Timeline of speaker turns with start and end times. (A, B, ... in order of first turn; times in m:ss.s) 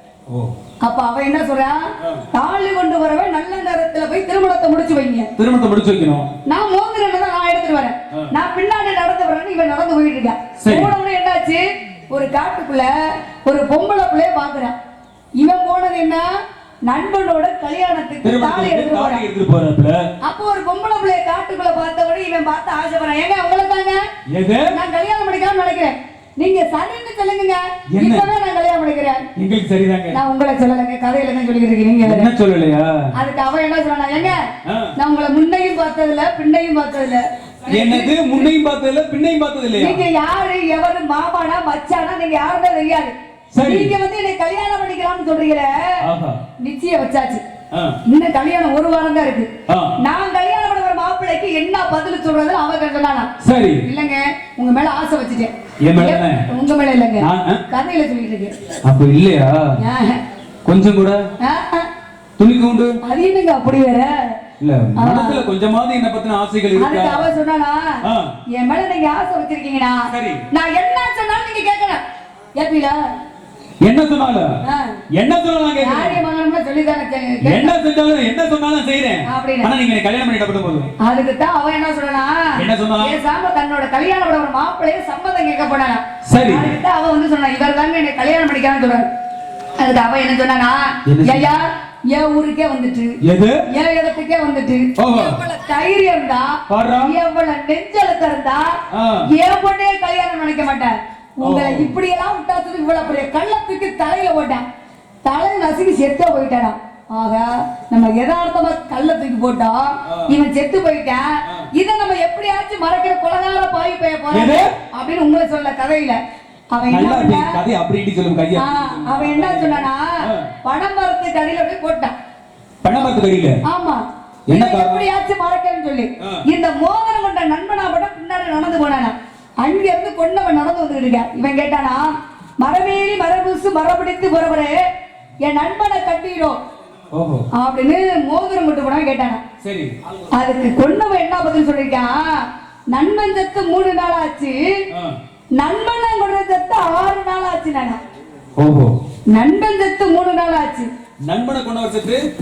0:00.3-0:00.5 A
0:00.8-0:05.3 B
0:05.4-0:06.3 A
0:06.5-0:14.8 B
0:10.6-0:10.9 A
0:15.4-0:16.3 B
0:16.9-0:19.2 B
0:18.2-0:20.1 A
0:20.2-0:24.0 B
0:24.3-0:24.8 A
0:24.7-0:29.2 B
0:27.9-0:28.3 A
0:29.4-0:30.2 A
0:30.1-0:32.3 B
0:32.0-0:33.1 A
0:33.2-0:34.4 B
0:34.6-0:34.9 A
0:35.0-0:38.3 B
0:37.7-0:40.0 A
0:39.8-0:46.0 B
0:43.5-0:44.0 A
0:46.0-0:46.4 A
0:46.6-0:47.4 B
0:47.7-0:48.0 A
0:48.0-0:53.3 B
0:49.7-0:50.0 A
0:53.4-0:53.8 A
0:53.8-0:58.5 B
0:55.8-0:56.4 A
0:57.2-0:57.6 A
0:58.8-0:59.8 A
0:59.8-1:00.2 B
1:00.6-1:01.3 A
1:01.4-1:01.9 B
1:02.4-1:03.0 A
1:03.0-1:04.4 B
1:04.6-1:07.3 A
1:05.0-1:05.4 B
1:06.8-1:12.0 B
1:08.0-1:08.3 A
1:10.1-1:10.4 A
1:12.6-1:13.0 B
1:13.8-1:14.6 A
1:14.6-1:15.0 B
1:15.1-1:16.2 A
1:15.8-1:17.8 B
1:17.4-1:20.9 A
1:19.3-1:19.7 B
1:21.0-1:29.1 B
1:22.6-1:23.2 A
1:26.2-1:26.8 A
1:29.8-1:33.2 B
1:31.1-1:31.5 A
1:33.2-1:33.6 A
1:33.7-1:44.6 B
1:35.0-1:35.4 A
1:36.7-1:37.2 A
1:38.9-1:39.3 A
1:41.4-1:42.0 A
1:45.2-1:56.2 B
1:50.0-1:50.4 A
1:51.4-1:51.7 A
1:54.3-1:54.7 A
1:56.7-1:57.6 B
1:56.9-2:00.5 A
1:58.6-2:02.1 B
2:02.8-2:03.6 A
2:03.6-2:14.8 B
2:04.5-2:05.1 A
2:06.2-2:06.4 A
2:15.4-2:16.6 B
2:17.1-2:17.5 A
2:17.5-2:19.4 B
2:19.6-2:19.9 A
2:20.3-2:24.8 B
2:24.9-2:25.2 A
2:25.6-2:28.0 B
2:28.6-2:29.0 A
2:29.3-2:30.9 B
2:31.2-2:32.2 A